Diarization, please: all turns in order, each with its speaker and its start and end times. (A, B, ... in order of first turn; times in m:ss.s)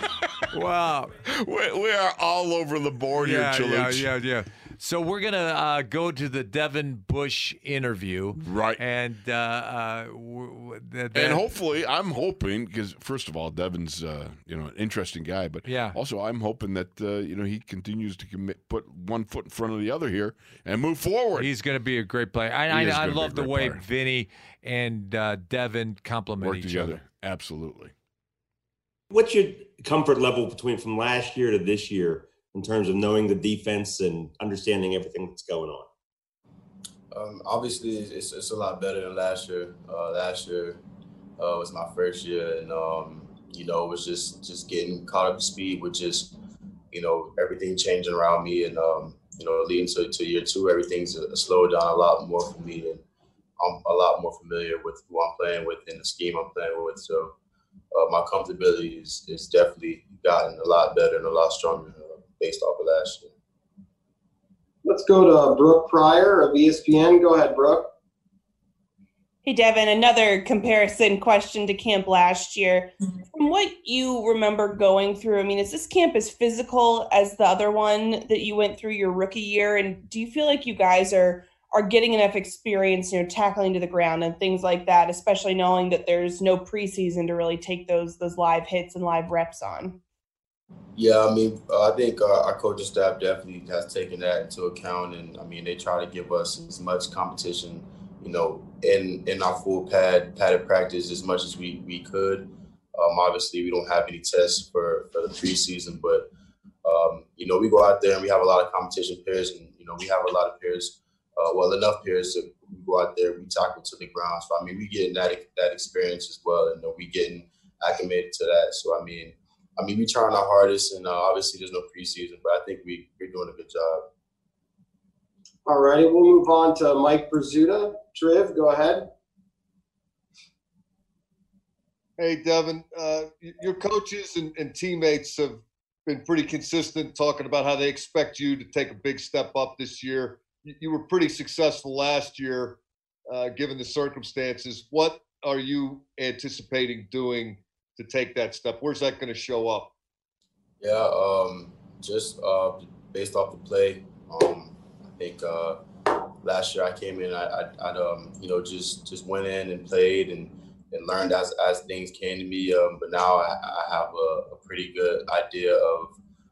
0:00.5-0:01.1 A
0:01.2-0:04.1 B
0:03.2-0:11.5 A
0:08.4-0:08.8 B
0:11.1-0:21.5 B
0:15.6-0:16.0 A
0:21.4-0:27.0 A
0:22.7-0:23.8 B
0:26.4-0:27.9 B
0:29.1-0:35.9 C
0:37.1-0:40.8 D
0:41.4-0:46.3 D
0:46.9-0:53.0 D
0:53.6-0:57.3 D
0:57.9-1:03.3 D
1:04.8-1:07.8 E
1:09.4-1:29.9 F
1:31.0-1:46.2 D
1:46.8-2:04.0 D
2:05.6-2:09.1 E
2:12.2-2:29.9 G
2:30.8-2:35.8 D
2:36.4-2:46.2 D